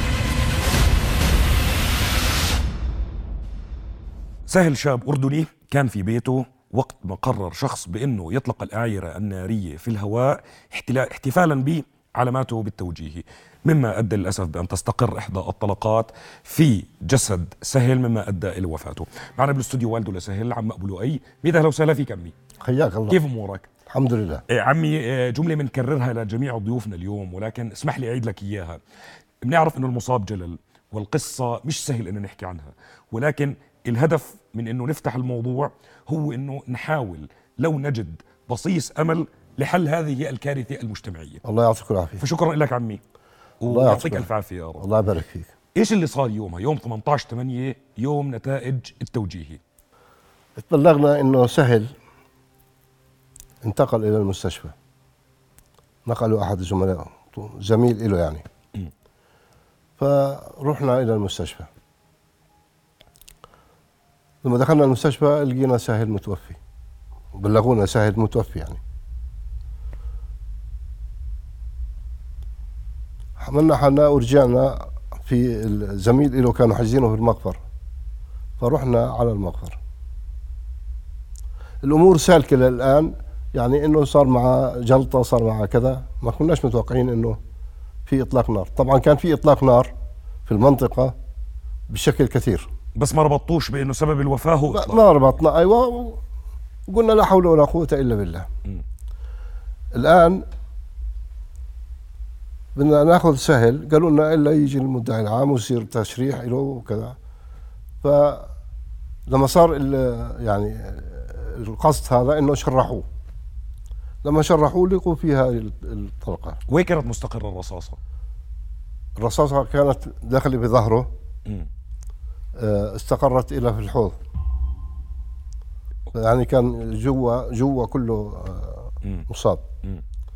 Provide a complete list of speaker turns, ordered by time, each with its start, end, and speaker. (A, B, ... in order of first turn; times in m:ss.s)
0:04.5-0:22.3 A
0:22.6-0:23.2 B
0:23.1-0:23.7 A
0:23.9-0:24.4 B
0:24.5-0:28.8 A
0:29.4-0:41.4 A
0:41.4-0:42.2 B
0:42.2-0:43.0 A
0:43.6-0:44.8 A
0:43.6-0:45.5 B
0:45.7-0:49.6 A
0:50.6-0:51.9 B
0:53.6-0:54.7 B
0:56.0-0:58.4 B
1:00.0-1:01.7 B
1:04.4-1:06.6 B
1:07.3-1:08.8 B
1:13.4-1:17.6 B
1:18.6-1:19.8 B
1:21.8-1:27.4 B
1:28.0-1:29.9 B
1:30.4-1:31.1 B
1:31.9-1:32.7 B
1:33.0-1:35.3 A
1:34.7-1:36.2 B
1:36.9-1:38.5 B
1:39.9-1:40.4 B
1:42.7-1:47.1 B
1:48.0-1:48.5 B
1:49.3-1:53.0 B
1:54.2-1:56.6 B
1:56.7-1:58.0 A
1:59.2-2:01.1 B
2:02.6-2:04.2 B
2:06.1-2:09.6 B